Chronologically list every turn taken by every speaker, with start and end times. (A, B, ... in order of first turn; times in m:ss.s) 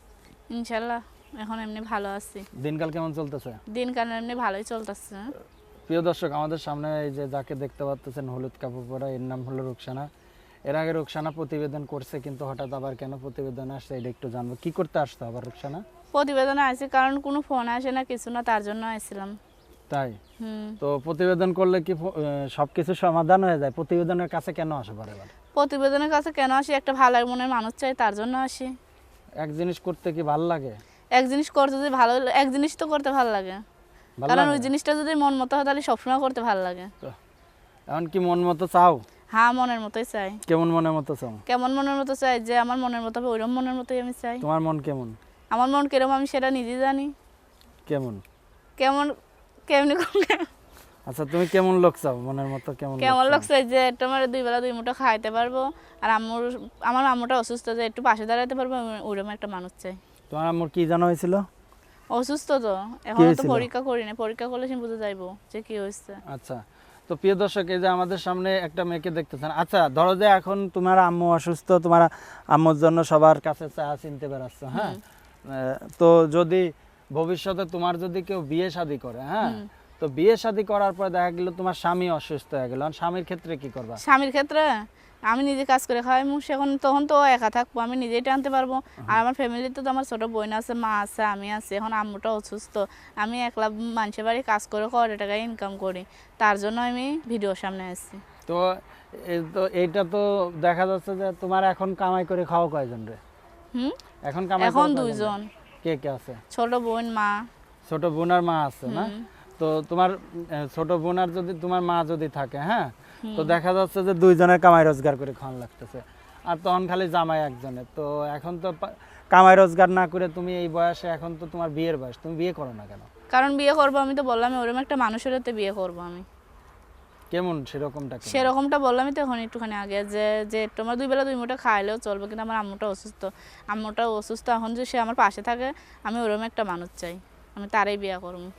0:00.5-0:02.5 A
0:02.6-0:03.6 B
0:03.7-0:05.3 A
0:05.9-0:10.1 B
0:10.7-0:15.8 B
0:16.1-0:19.4 A
0:19.9-0:20.2 B
0:20.4-0:20.8 A
0:20.8-0:25.3 B
0:25.6-0:28.7 A
0:29.4-0:30.8 B
0:31.2-0:33.6 A
0:34.2-0:34.7 B
0:34.3-0:36.9 A
0:37.9-0:39.0 B
0:39.3-0:40.4 A
0:40.5-0:41.4 B
0:41.5-0:44.4 A
0:44.4-0:45.2 B
0:45.5-0:47.1 A
0:47.9-0:48.2 B
0:48.8-0:49.1 A
0:49.7-0:50.5 A
0:51.1-0:53.5 B
0:53.0-1:00.0 A
1:00.3-1:01.4 B
1:02.1-1:06.2 A
1:03.2-1:03.7 B
1:06.3-1:15.0 B
1:14.7-1:15.0 A
1:15.5-1:24.0 B
1:24.0-1:38.2 A
1:38.5-1:43.2 B
1:44.2-1:46.4 B
1:44.6-1:45.5 A
1:46.5-1:47.5 A
1:47.9-2:03.1 B
1:48.9-1:49.2 A
1:53.2-1:53.6 A
2:03.3-2:06.3 A
2:07.3-2:08.5 B
2:08.3-2:18.5 A